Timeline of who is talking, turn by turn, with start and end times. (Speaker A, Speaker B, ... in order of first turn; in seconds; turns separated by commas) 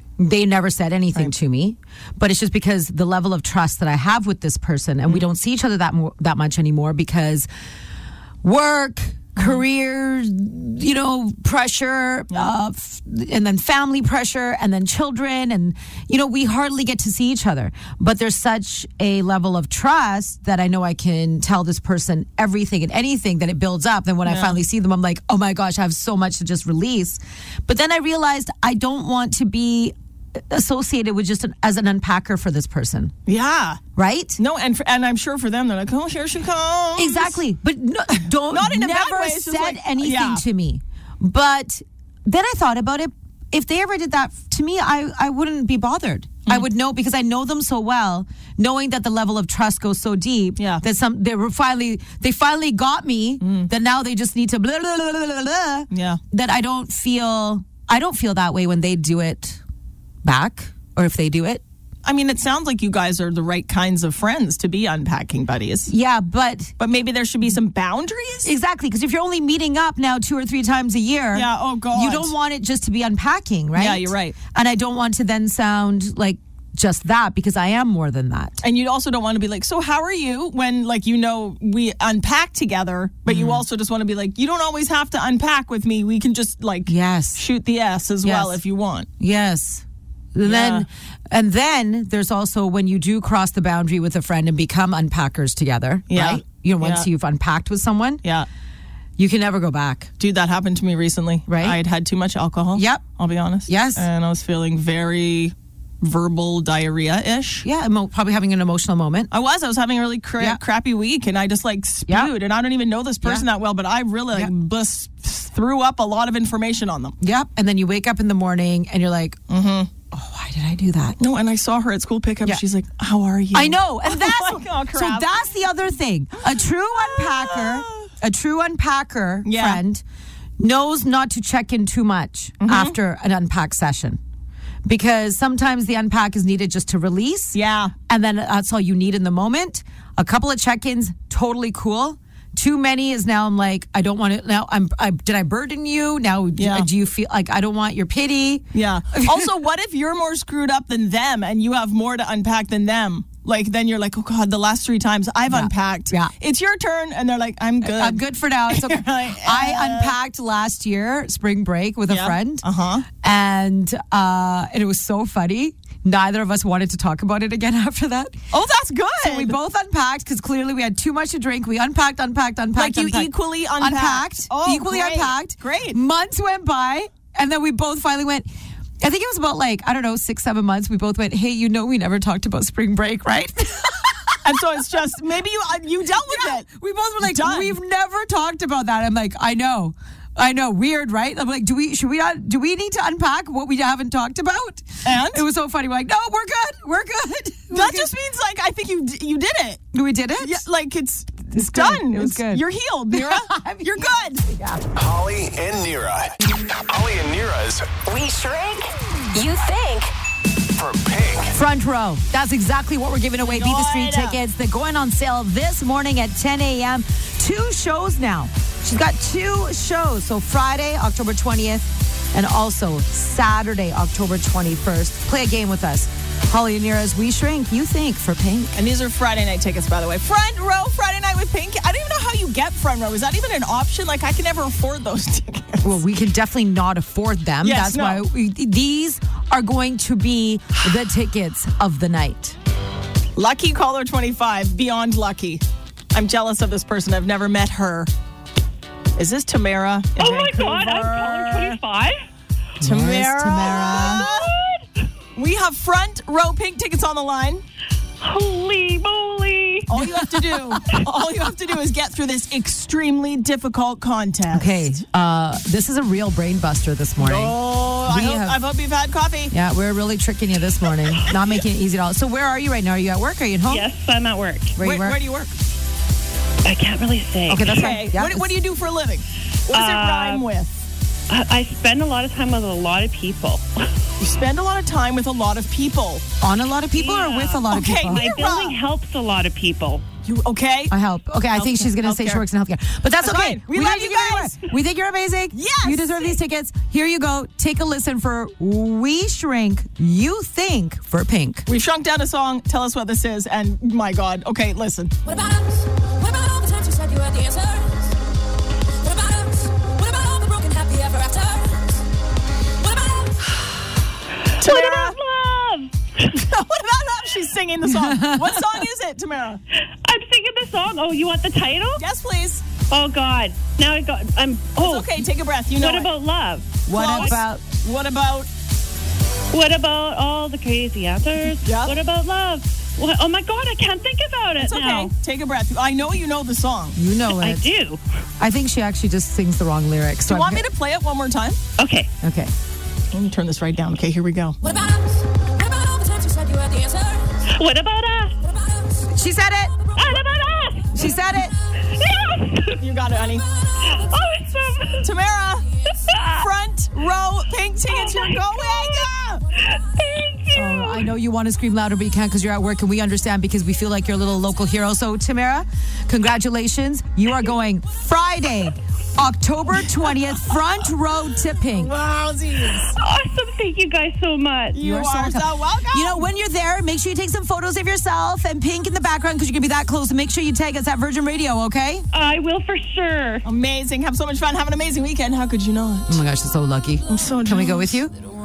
Speaker A: 0.2-7.5, Speaker A: 8.4-33.1, Speaker B: 24.3-24.6, Speaker B: 33.3-33.8, Speaker A: 34.0-34.4, Speaker B: 34.4-37.4, Speaker A: 37.0-59.6, Speaker B: 38.5-40.4, Speaker B: 50.6-50.8, Speaker B: 53.4-53.7, Speaker B: 55.9-56.2, Speaker A: 60.2-61.6, Speaker B: 62.0-65.9, Speaker A: 65.9-66.7, Speaker B: 66.8-68.5, Speaker A: 68.5-78.6, Speaker B: 71.3-72.3, Speaker B: 73.8-74.4, Speaker B: 78.6-89.1, Speaker A: 83.3-83.6, Speaker A: 86.9-87.4, Speaker A: 88.2-88.6, Speaker A: 89.2-98.2, Speaker B: 90.4-90.9, Speaker B: 96.1-97.1, Speaker A: 99.2-100.1, Speaker B: 100.2-107.7, Speaker A: 101.5-101.8, Speaker A: 102.8-103.0, Speaker A: 103.7-104.0, Speaker A: 107.6-109.3, Speaker B: 109.3-117.2, Speaker A: 117.2-119.4, Speaker B: 119.5-119.9, Speaker A: 120.1-121.2, Speaker B: 121.2-125.4, Speaker A: 123.5-130.0, Speaker B: 126.6-128.1, Speaker B: 129.4-129.8, Speaker A: 130.6-134.2, Speaker B: 132.6-133.0, Speaker A: 134.8-137.6, Speaker B: 137.6-137.9, Speaker A: 138.1-149.5, Speaker B: 146.6-146.9, Speaker B: 148.7-160.2, Speaker A: 155.5-156.3, Speaker A: 157.8-162.6, Speaker B: 162.1-163.1, Speaker A: 163.2-168.4, Speaker B: 168.5-169.6, Speaker A: 169.2-178.5, Speaker B: 172.8-176.0, Speaker A: 179.0-184.4, Speaker B: 184.4-186.7, Speaker A: 186.3-198.2, Speaker B: 187.2-187.7, Speaker B: 195.0-195.4, Speaker B: 197.7-199.8, Speaker A: 199.9-200.6, Speaker B: 200.4-204.5, Speaker A: 201.5-204.9, Speaker C: 205.0-208.0, Speaker D: 208.0-210.1, Speaker C: 210.8-211.6, Speaker A: 211.5-228.7, Speaker B: 213.4-214.4, Speaker B: 228.7-236.0, Speaker A: 235.8-242.6, Speaker B: 237.6-238.2, Speaker B: 243.4-248.1, Speaker B: 249.2-251.8, Speaker E: 250.2-252.2, Speaker A: 252.8-254.3, Speaker B: 252.8-254.5, Speaker E: 253.7-254.9, Speaker B: 255.4-257.6, Speaker E: 258.2-259.9, Speaker B: 259.9-265.0, Speaker A: 260.0-260.7, Speaker A: 264.5-268.6, Speaker B: 267.2-269.5, Speaker A: 269.5-273.9, Speaker E: 273.7-274.8, Speaker A: 274.8-275.2, Speaker B: 274.8-275.5, Speaker E: 276.6-277.9, Speaker A: 277.5-278.5, Speaker B: 277.6-280.7, Speaker E: 279.7-280.5, Speaker E: 281.3-283.7, Speaker B: 284.2-286.2, Speaker A: 286.4-288.4, Speaker E: 287.0-290.1, Speaker B: 287.7-288.8, Speaker B: 290.2-290.9, Speaker A: 290.9-301.7, Speaker B: 291.5-292.4, Speaker B: 293.2-294.6, Speaker B: 295.5-296.4, Speaker B: 301.7-305.2, Speaker F: 305.3-308.1, Speaker F: 309.0-311.9, Speaker F: 312.9-313.4, Speaker B: 314.6-315.2, Speaker E: 314.6-316.4, Speaker B: 316.3-319.6, Speaker A: 318.0-318.6, Speaker E: 320.0-322.0, Speaker B: 322.0-322.6, Speaker E: 322.9-327.4, Speaker B: 324.8-326.1, Speaker A: 326.9-327.6, Speaker B: 326.9-328.5, Speaker E: 329.5-335.1, Speaker B: 331.6-332.0, Speaker B: 334.6-337.0, Speaker A: 337.0-337.7, Speaker E: 337.3-338.0, Speaker A: 338.4-340.7, Speaker B: 340.3-341.6, Speaker E: 341.8-342.1, Speaker A: 342.2-342.5, Speaker B: 343.1-344.6, Speaker F: 344.7-347.4, Speaker E: 347.4-348.5, Speaker A: 349.1-349.8, Speaker E: 349.9-351.1, Speaker A: 350.9-351.6, Speaker E: 351.8-352.8, Speaker B: 352.8-353.5, Speaker E: 353.8-355.1, Speaker B: 355.0-355.7, Speaker E: 356.1-356.5, Speaker B: 356.2-359.4, Speaker E: 357.9-359.1, Speaker E: 359.6-361.1, Speaker A: 360.5-372.0, Speaker B: 371.7-372.9, Speaker E: 372.9-374.8, Speaker B: 374.7-376.3, Speaker A: 374.8-382.1, Speaker E: 382.1-383.4, Speaker B: 383.4-386.2, Speaker A: 386.1-388.1, Speaker B: 387.1-387.9